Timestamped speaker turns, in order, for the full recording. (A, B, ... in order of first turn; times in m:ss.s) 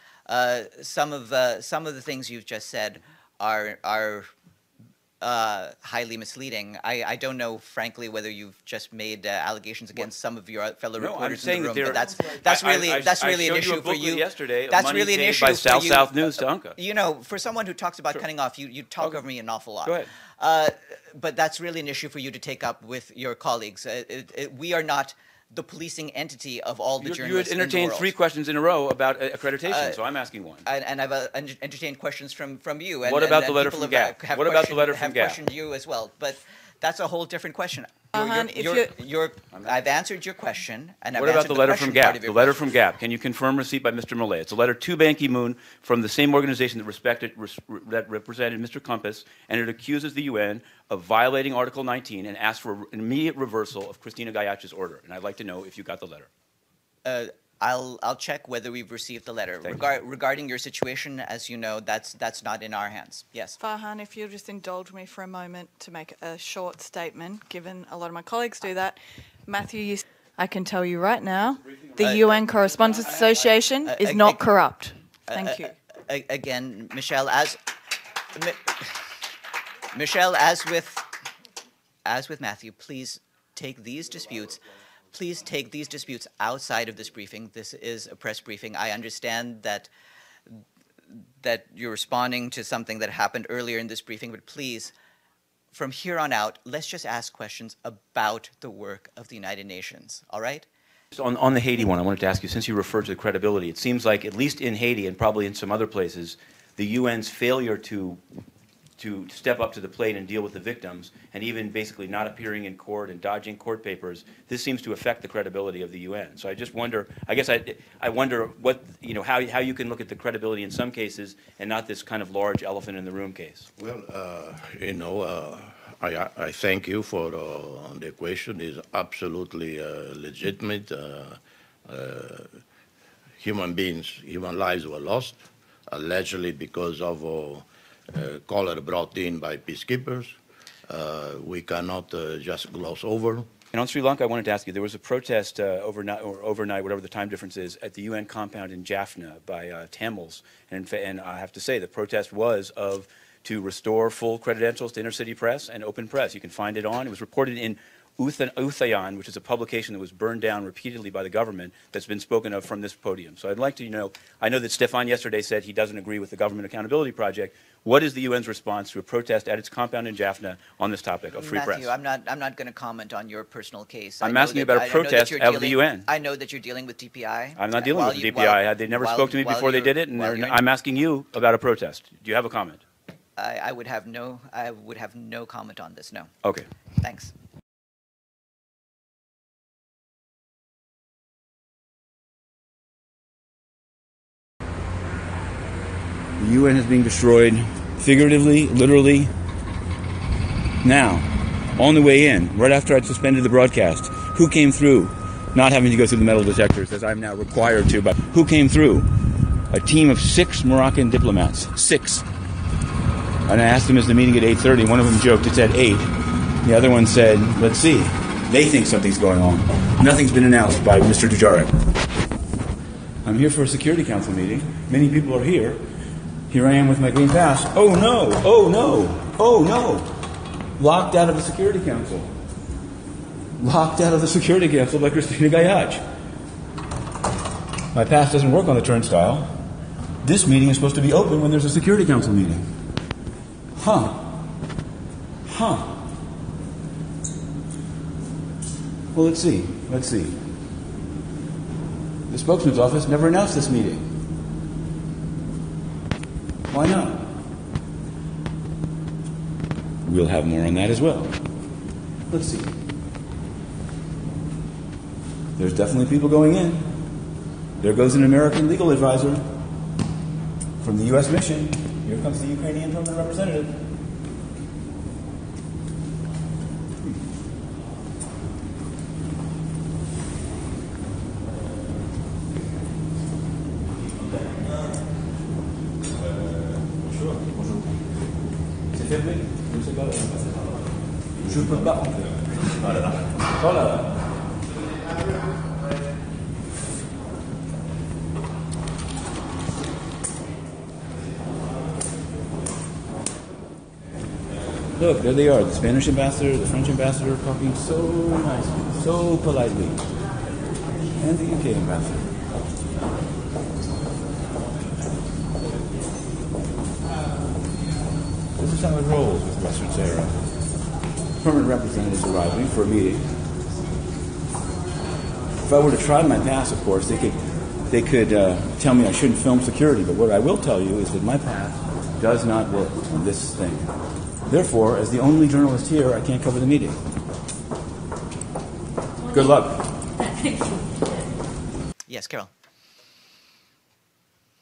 0:00.3-0:04.3 A
0:05.2-0:28.1 A
0:11.0-0:16.8 B
0:19.8-0:20.1 B
0:27.0-0:30.6 B
0:29.7-0:30.0 A
0:30.6-0:42.6 A
0:33.0-0:35.4 B
0:38.1-0:38.9 C
0:39.5-0:39.8 B
0:41.1-0:56.3 B
0:57.0-1:03.6 A
1:03.6-1:15.8 C
1:11.5-1:13.6 B
1:12.0-1:12.4 A
1:13.8-1:14.5 A
1:15.3-1:17.8 A
1:18.3-1:19.1 A
1:19.9-1:21.1 A
1:22.0-1:24.6 A
1:25.1-1:29.9 A
1:31.4-1:34.9 A
1:35.7-1:40.7 A
1:41.1-1:48.2 B
1:49.0-2:03.7 B
2:03.8-2:12.6 D
2:13.4-2:20.4 D
2:20.9-2:23.5 D
2:23.7-2:51.9 B
2:51.3-3:00.6 A
2:54.2-2:56.1 B
2:57.6-3:02.8 B
3:03.4-3:06.3 A
3:07.0-3:07.3 A
3:16.4-3:19.3 B
3:20.8-3:29.1 B
3:29.7-3:32.3 B
3:33.5-3:41.8 B
3:43.2-3:45.8 B
3:46.5-3:50.2 B
3:50.8-3:52.3 B
3:53.6-3:56.0 B
3:57.9-3:59.6 B
4:00.2-4:02.7 B
4:03.8-4:04.5 B
4:05.4-4:06.1 B
4:09.1-4:10.5 B
4:12.3-4:14.1 B
4:16.7-4:17.3 B
4:20.0-4:21.4 B
4:22.3-4:22.8 B
4:25.6-4:27.1 B
4:27.8-4:29.5 B
4:30.8-4:33.8 B
4:47.4-4:47.9 B
4:48.9-4:50.6 B
4:51.4-4:54.3 B
5:05.0-5:10.1 B
5:11.2-5:12.3 B
5:18.6-5:20.4 B
5:21.4-5:23.3 B
5:25.6-5:33.9 B
5:34.5-5:37.0 B
5:39.3-5:40.1 B
5:42.1-5:42.5 A